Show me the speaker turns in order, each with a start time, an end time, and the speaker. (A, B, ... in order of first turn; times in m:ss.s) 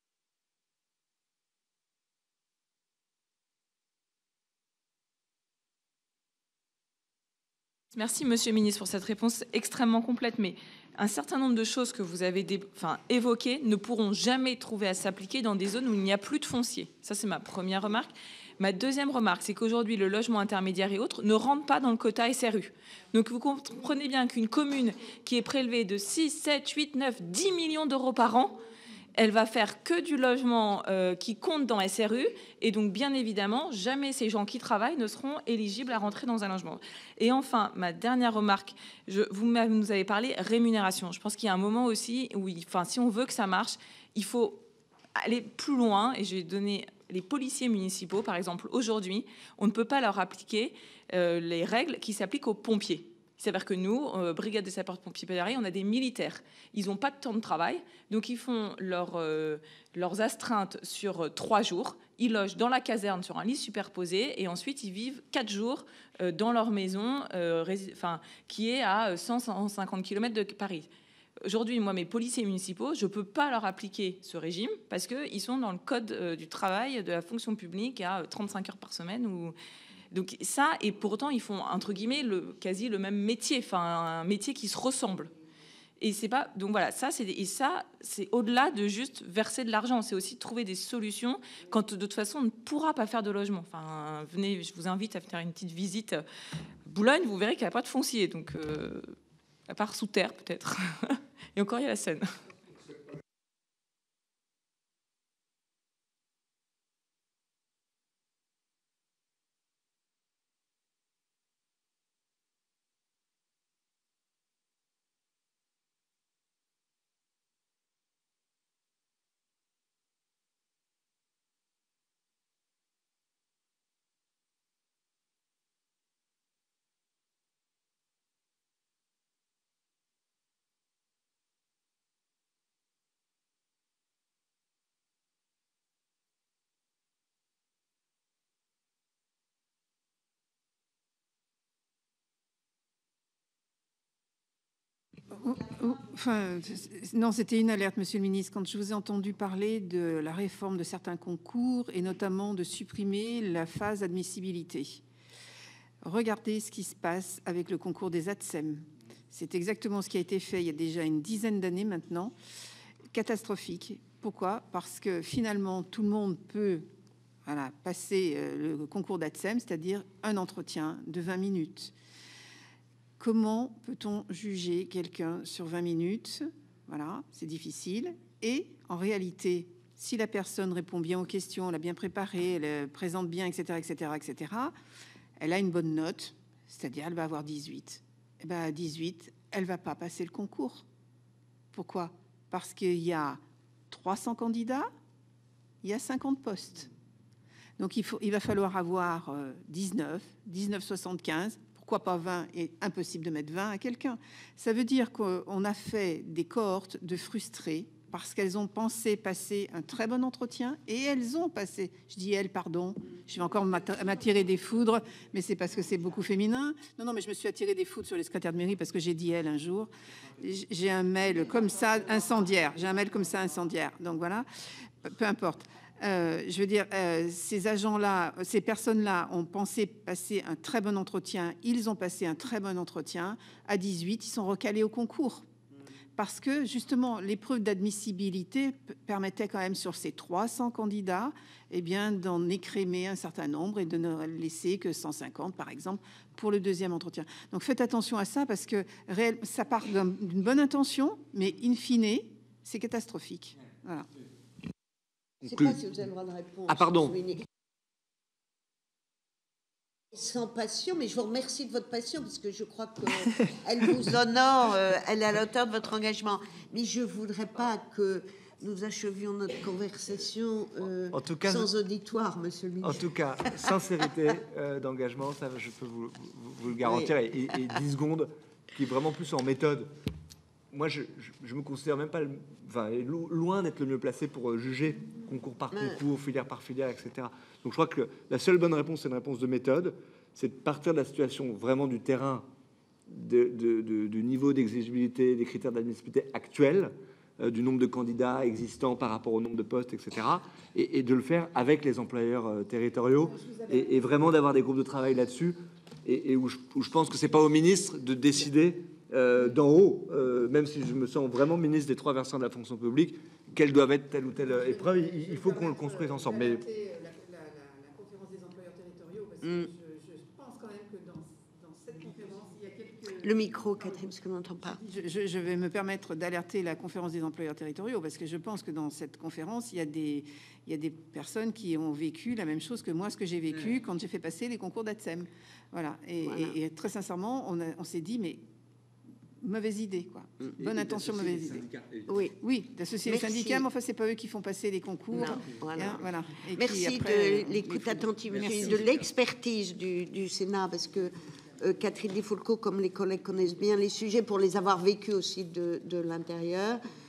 0:07.9-0:28.6 A
0:29.2-0:44.6 A
0:45.2-1:10.9 A
1:11.4-1:19.6 A
1:20.1-1:25.3 A
1:26.0-1:36.2 A
1:36.8-1:39.1 A
1:39.7-1:42.3 A
2:25.3-2:35.0 B
2:36.0-2:42.3 B
2:43.1-2:46.9 B
2:47.5-2:51.9 B
2:53.2-3:04.8 B
3:05.4-3:10.8 B
3:11.7-3:14.9 B
3:15.8-3:16.9 B
3:17.8-3:39.9 B
3:40.4-3:44.5 B
3:45.0-3:55.5 B
3:56.2-4:14.1 B
4:15.4-4:15.8 C
4:15.5-4:17.4 D
4:16.7-4:17.2 C
4:20.1-4:33.0 D
4:31.1-4:31.7 C
4:32.8-4:39.9 C
4:40.7-4:52.5 C
4:53.1-5:16.6 C
5:14.5-5:24.0 B
5:19.4-5:19.7 D
5:23.2-5:24.8 D
5:24.7-5:38.4 B
5:36.2-5:36.5 D
5:39.4-5:41.7 B
5:42.1-5:42.4 D
5:42.3-5:48.8 B
5:43.0-5:43.7 D
5:45.1-5:46.0 D
5:46.6-5:56.8 D